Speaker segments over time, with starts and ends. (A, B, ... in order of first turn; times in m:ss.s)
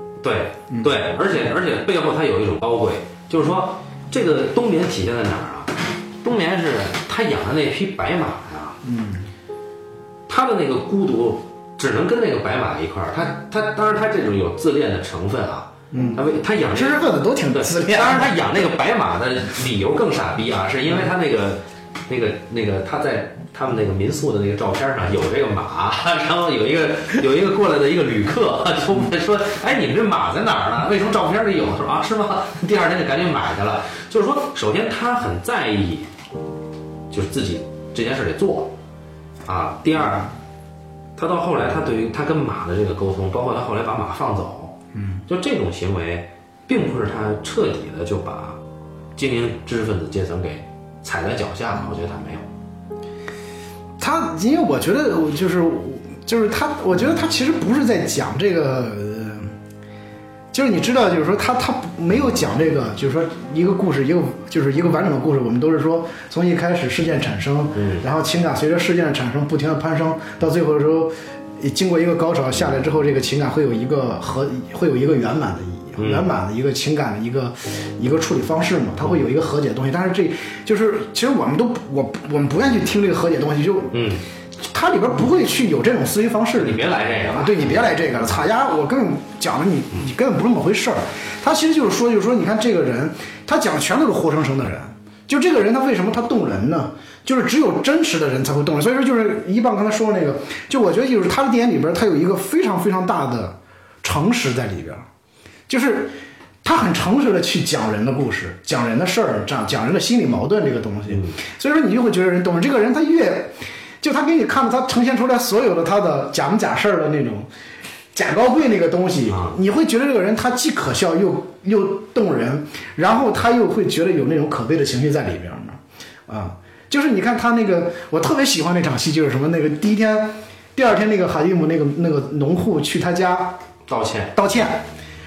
0:00.2-0:08.8 A
0:08.8-0:09.2 B
0:10.3-0:36.1 A
0:15.9-0:18.4 B
0:37.1-0:38.7 A
0:39.4-0:40.3 A
0:41.2-0:44.8 A
0:45.3-0:48.6 A
0:49.2-0:52.4 A
0:54.0-0:59.5 B
1:00.5-1:23.9 B
1:07.8-1:08.0 A
1:16.0-1:16.3 A
1:23.9-1:24.2 A
1:24.7-1:45.0 B
1:26.6-1:28.1 A
1:45.7-1:57.5 B
1:58.1-2:13.6 B
1:59.3-1:59.6 A
2:13.9-2:14.3 A
2:14.3-2:14.8 B